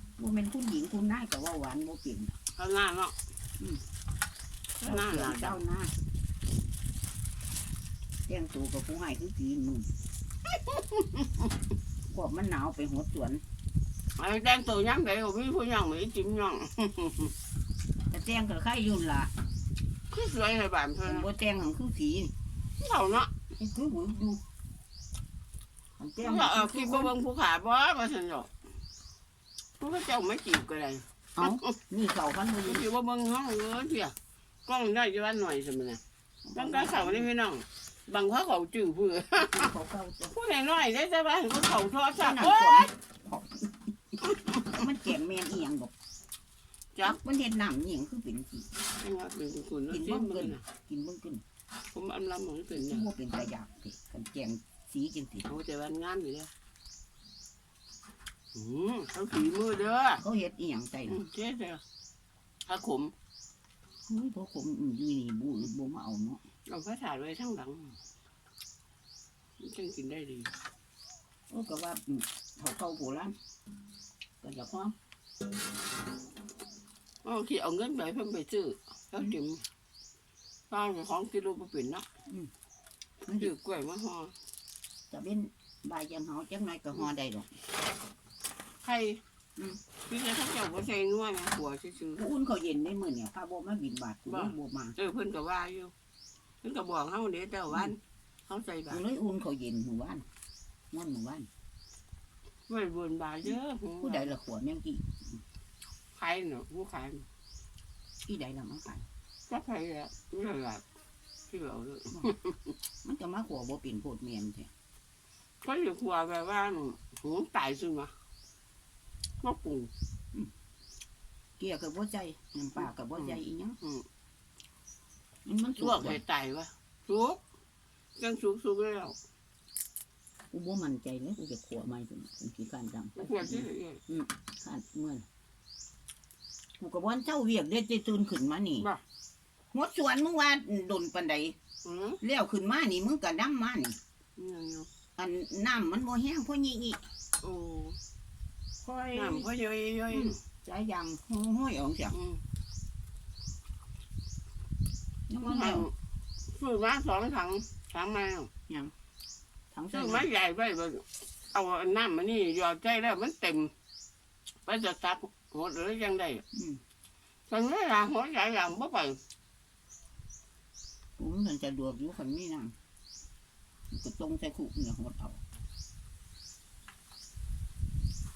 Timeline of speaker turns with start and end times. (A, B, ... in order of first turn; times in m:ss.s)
0:00.2-0:02.4 A
0:02.6-0:03.1 B
0:03.6-0:03.8 A
0:04.8-0:05.6 B
0:04.8-0:05.9 A
0:08.3-0:09.9 A
0:10.5-0:11.5 B
0:12.1-0:13.4 A
0:14.2-0:17.3 B
0:18.1-0:19.3 A
0:20.1-0:21.3 B
0:21.0-0:22.3 A
0:22.8-0:23.3 B
0:23.6-0:24.4 A
0:26.0-0:27.1 A
0:26.2-0:28.5 B
0:29.8-0:31.8 B
0:31.4-0:32.9 A
0:32.6-0:34.1 B
0:34.7-0:36.0 B
0:36.4-0:37.3 A
0:36.6-0:39.7 B
0:39.4-0:40.4 A
0:40.3-0:42.9 B
0:42.2-0:43.7 A
0:44.2-0:44.8 B
0:44.6-0:45.9 A
0:47.0-0:48.7 A
0:49.0-0:50.6 B
0:49.9-0:51.4 A
0:51.9-0:53.1 B
0:52.7-0:55.5 A
0:55.4-0:56.5 B
0:58.5-1:00.2 B
1:00.2-1:01.2 A
1:01.1-1:01.8 B
1:02.7-1:03.1 B
1:04.1-1:06.4 A
1:06.7-1:08.0 B
1:09.6-1:10.5 B
1:11.5-1:13.4 A
1:14.4-1:15.0 A
1:17.2-1:19.6 B
1:20.7-1:22.0 B
1:23.3-1:23.5 A
1:23.4-1:24.3 B
1:25.1-1:27.5 A
1:28.8-1:29.2 B
1:30.1-1:32.3 B
1:32.2-1:35.0 A
1:34.3-1:35.9 B
1:36.6-1:39.0 B
1:38.9-1:40.2 A
1:40.9-1:41.5 A
1:42.7-1:44.3 B
1:43.4-1:45.4 A
1:46.2-1:47.3 B
1:48.3-1:49.1 A
1:49.5-1:50.8 B
1:51.5-1:52.7 B
1:53.0-1:54.7 A
1:55.6-1:58.1 B
1:59.4-1:59.9 B
2:01.6-2:03.8 A
2:02.8-2:04.0 B
2:05.4-2:06.2 A
2:05.8-2:07.4 B
2:08.2-2:09.2 B
2:10.5-2:15.2 A
2:13.2-2:14.0 B
2:16.8-2:18.9 A
2:19.7-2:21.6 A
2:21.8-2:22.2 B
2:22.2-2:24.0 A
2:24.4-2:24.9 B
2:25.2-2:27.0 A
2:27.4-2:28.0 B
2:28.8-2:29.5 A
2:29.1-2:30.4 B
2:30.1-2:32.2 A
2:32.1-2:32.4 B
2:35.3-2:35.9 A
2:35.4-2:35.9 B
2:36.5-2:38.5 B
2:38.7-2:38.9 A
2:39.7-2:40.3 A
2:39.9-2:43.7 B
2:44.7-2:46.4 B
2:46.5-2:46.8 A
2:47.5-2:49.2 B
2:51.2-2:52.8 A
2:53.9-2:55.4 A